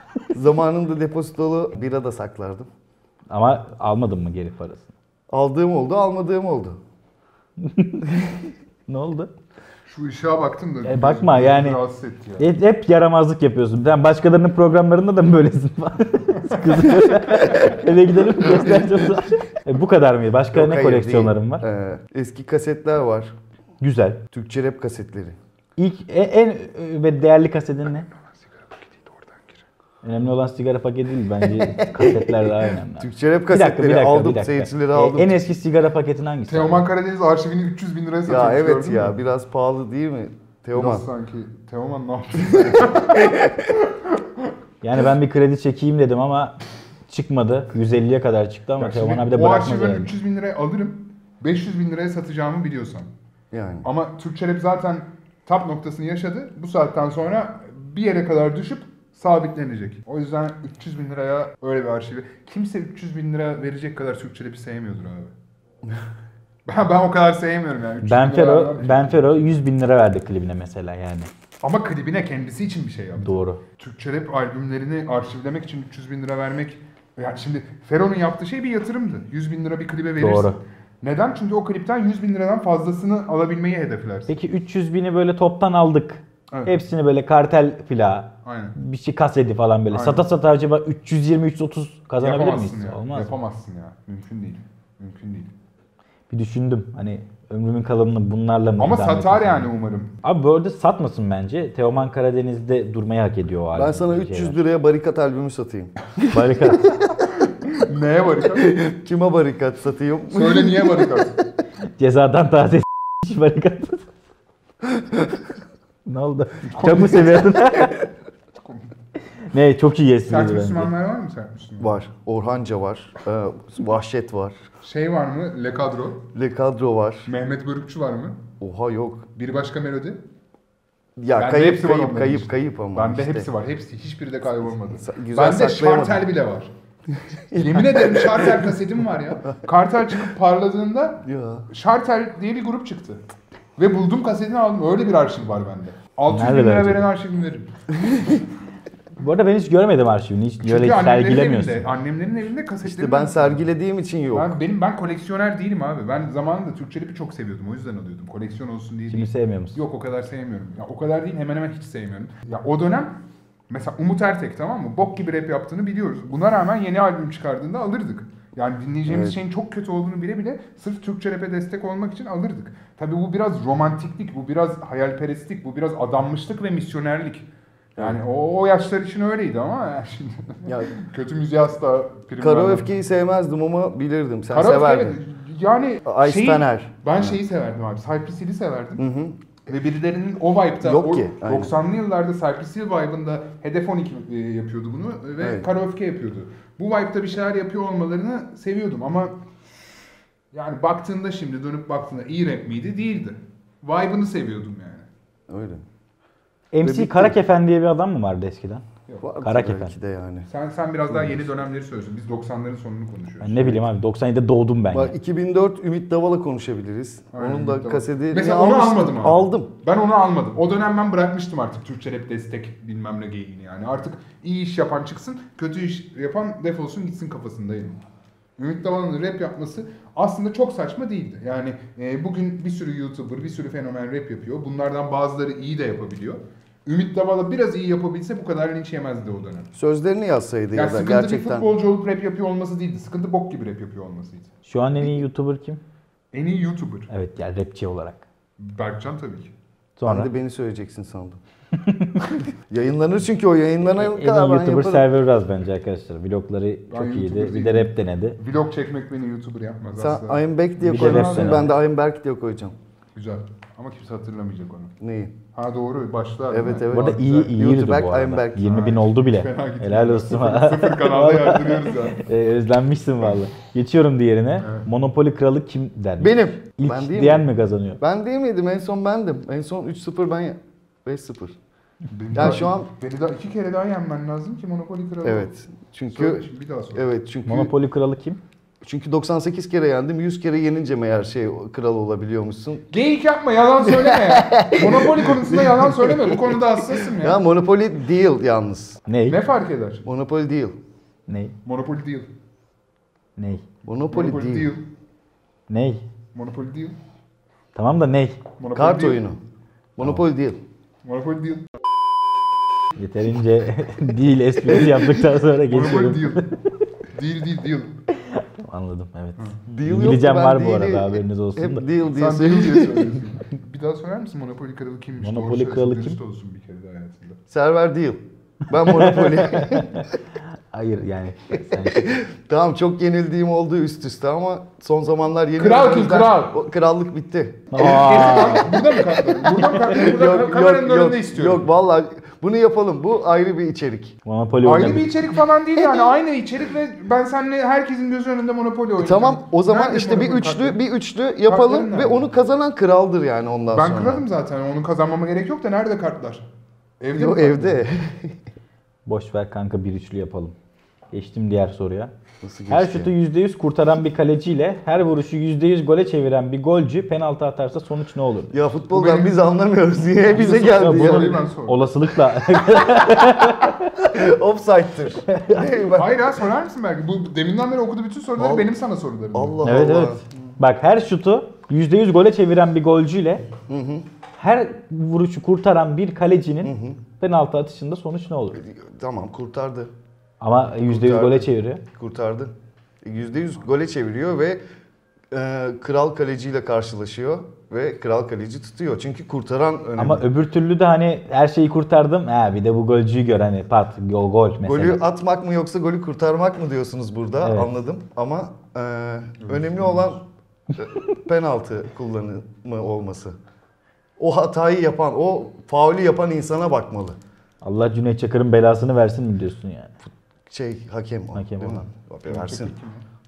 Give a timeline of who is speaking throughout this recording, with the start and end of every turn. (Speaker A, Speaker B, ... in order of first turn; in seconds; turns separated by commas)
Speaker A: 0.3-2.7, Speaker B: 3.3-4.9, Speaker A: 5.3-6.8, Speaker B: 7.6-8.1, Speaker B: 8.9-9.3, Speaker C: 9.9-12.5, Speaker B: 10.8-11.8, Speaker B: 12.4-21.6, Speaker C: 16.5-16.9, Speaker A: 18.4-19.1, Speaker A: 20.5-23.4, Speaker B: 23.8-24.2, Speaker A: 24.3-25.4, Speaker B: 25.8-28.1, Speaker C: 28.1-29.6, Speaker B: 30.0-36.9, Speaker A: 31.4-35.4, Speaker C: 36.5-39.1, Speaker A: 38.3-41.0, Speaker C: 40.7-44.2, Speaker B: 44.8-46.5, Speaker B: 47.1-50.1, Speaker C: 48.8-53.1, Speaker A: 53.5-53.9, Speaker C: 53.8-65.3, Speaker C: 66.7-69.5, Speaker B: 68.0-71.3, Speaker C: 71.6-84.3, Speaker B: 73.2-73.6, Speaker B: 80.2-80.6, Speaker B: 84.3-93.3, Speaker C: 86.5-86.8, Speaker C: 88.5-88.8, Speaker C: 89.9-90.3, Speaker C: 92.2-95.5, Speaker B: 96.3-99.7, Speaker C: 98.8-100.2, Speaker B: 100.2-104.6, Speaker A: 103.7-105.9, Speaker B: 106.3-106.9, Speaker C: 107.7-108.8, Speaker A: 108.6-111.2, Speaker C: 110.3-111.4, Speaker B: 112.0-114.0, Speaker B: 116.1-118.0, Speaker C: 116.7-117.9, Speaker C: 118.6-118.9, Speaker B: 119.5-120.9, Speaker C: 120.3-122.0, Speaker A: 121.8-124.6, Speaker C: 124.8-126.3, Speaker A: 126.3-127.3, Speaker C: 127.3-128.4, Speaker A: 128.6-129.3, Speaker C: 129.4-130.2, Speaker A: 131.2-133.5, Speaker C: 131.3-136.7, Speaker A: 134.9-136.2, Speaker A: 137.1-138.5, Speaker C: 137.5-143.2, Speaker A: 141.2-141.7, Speaker C: 143.8-147.7, Speaker B: 146.3-147.1, Speaker B: 149.2-151.9, Speaker C: 150.6-153.6, Speaker A: 152.8-154.6, Speaker C: 154.3-163.2, Speaker B: 159.1-159.8, Speaker C: 163.7-182.9, Speaker A: 169.1-169.4, Speaker A: 180.7-180.9, Speaker A: 182.4-185.2, Speaker C: 184.5-189.0, Speaker A: 186.1-187.4, Speaker A: 189.0-189.4, Speaker C: 189.7-199.4, Speaker A: 190.8-191.7, Speaker A: 195.4-195.7, Speaker C: 200.5-205.1, Speaker A: 205.5-205.8, Speaker B: 206.7-208.8, Speaker A: 206.8-207.3, Speaker A: 209.2-210.5, Speaker B: 209.4-209.9, Speaker C: 210.5-213.9, Speaker A: 211.1-211.4, Speaker B: 213.4-215.1, Speaker A: 214.9-219.7, Speaker C: 217.3-228.0, Speaker C: 228.6-239.7, Speaker A: 239.7-241.7, Speaker C: 240.7-244.5, Speaker B: 244.6-245.8, Speaker C: 246.3-247.1, Speaker B: 247.1-248.2, Speaker C: 248.6-249.5, Speaker B: 250.0-250.3, Speaker A: 250.1-251.4, Speaker B: 251.8-252.3, Speaker A: 252.7-255.1, Speaker B: 254.0-258.4, Speaker C: 256.9-261.7, Speaker A: 260.0-262.8, Speaker B: 260.8-261.7, Speaker C: 263.1-264.9, Speaker A: 265.0-265.4, Speaker C: 265.5-267.5, Speaker A: 266.5-268.9, Speaker B: 266.9-278.0, Speaker C: 268.6-272.2, Speaker C: 274.6-274.9, Speaker A: 276.2-277.5, Speaker A: 278.0-281.6, Speaker C: 282.1-285.5, Speaker A: 282.3-282.9, Speaker A: 285.2-287.7, Speaker C: 286.1-287.0, Speaker B: 287.5-288.4, Speaker A: 288.8-292.9, Speaker C: 292.9-297.4, Speaker A: 293.8-299.0, Speaker B: 299.1-299.4, Speaker C: 299.3-300.1, Speaker A: 300.1-300.8, Speaker B: 301.3-301.6, Speaker C: 301.6-302.3, Speaker B: 303.4-303.6, Speaker A: 303.9-304.7, Speaker C: 304.1-304.9, Speaker B: 305.7-306.0, Speaker C: 306.3-307.0, Speaker B: 307.8-308.4, Speaker C: 308.6-309.2, Speaker A: 308.7-309.4, Speaker A: 310.0-310.6, Speaker C: 311.0-311.7, Speaker B: 313.0-316.5, Speaker C: 315.6-316.5, Speaker C: 317.1-317.9, Speaker B: 318.2-321.9, Speaker A: 319.7-323.2, Speaker C: 322.0-327.4, Speaker B: 325.2-326.2, Speaker A: 327.5-330.0, Speaker B: 328.8-330.1, Speaker B: 330.7-332.2, Speaker A: 331.7-344.2, Speaker C: 335.6-336.6, Speaker B: 337.7-338.7, Speaker C: 337.8-341.7, Speaker B: 344.3-345.1, Speaker C: 344.6-350.8, Speaker A: 345.8-346.1, Speaker A: 349.0-354.2, Speaker C: 351.5-352.3, Speaker C: 353.7-356.5, Speaker C: 357.0-357.8, Speaker A: 357.1-358.4, Speaker B: 359.1-360.6, Speaker B: 361.1-362.1, Speaker A: 362.4-363.1, Speaker B: 362.7-368.6, Speaker A: 368.5-371.4, Speaker C: 368.9-369.5, Speaker C: 370.3-371.9, Speaker B: 370.4-374.0, Speaker A: 372.8-376.1, Speaker B: 375.3-375.7, Speaker C: 375.9-379.6, Speaker A: 378.4-378.7, Speaker A: 379.3-380.2, Speaker B: 379.6-383.5, Speaker A: 383.7-384.1, Speaker B: 384.4-388.6, Speaker A: 386.6-387.0, Speaker A: 388.6-389.9, Speaker B: 390.4-391.8, Speaker A: 390.8-394.6, Speaker A: 395.3-400.3, Speaker B: 400.0-405.0, Speaker A: 404.6-410.2, Speaker B: 407.4-407.7, Speaker C: 409.4-410.2, Speaker A: 410.8-413.4, Speaker A: 414.2-417.2, Speaker B: 417.6-419.9, Speaker A: 420.5-422.8, Speaker B: 421.4-421.9, Speaker C: 422.2-423.1